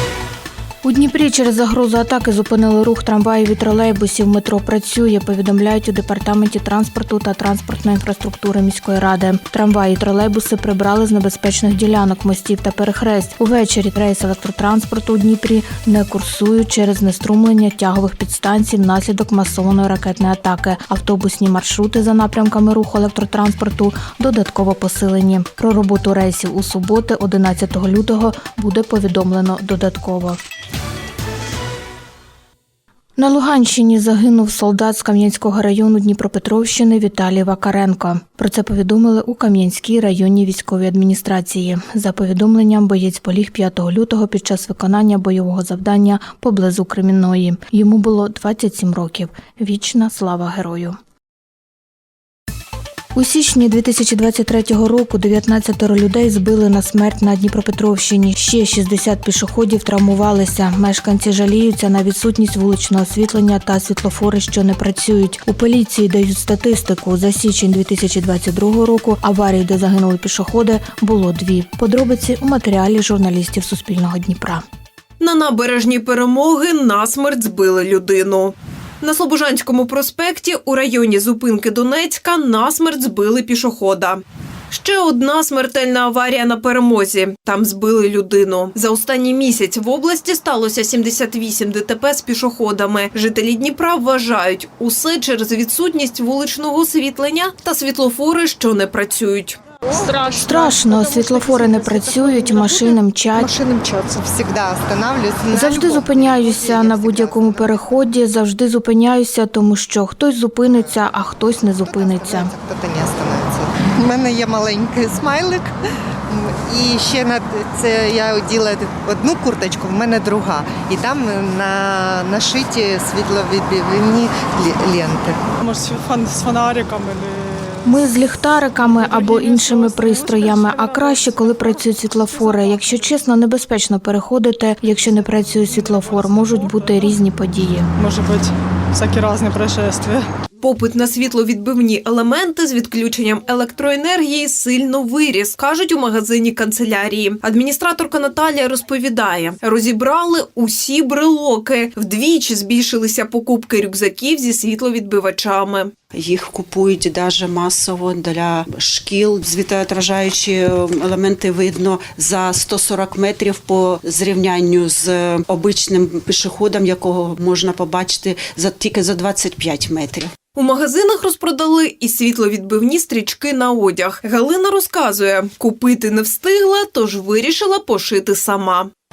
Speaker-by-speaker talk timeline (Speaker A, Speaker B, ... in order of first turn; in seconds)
Speaker A: 0.8-30.4, 33.2-51.0, 53.1-74.6, 100.3-103.6, 105.5-112.5, 127.8-137.9
Speaker B: 75.2-99.6, 140.6-155.9, 170.6-178.9
Speaker C: 99.9-102.9, 103.5-104.2, 125.6-128.1, 128.8-133.1, 135.0-137.1, 138.0-140.3
Speaker D: 103.4-107.8, 111.8-115.7, 116.3-125.4
Speaker E: 156.1-170.3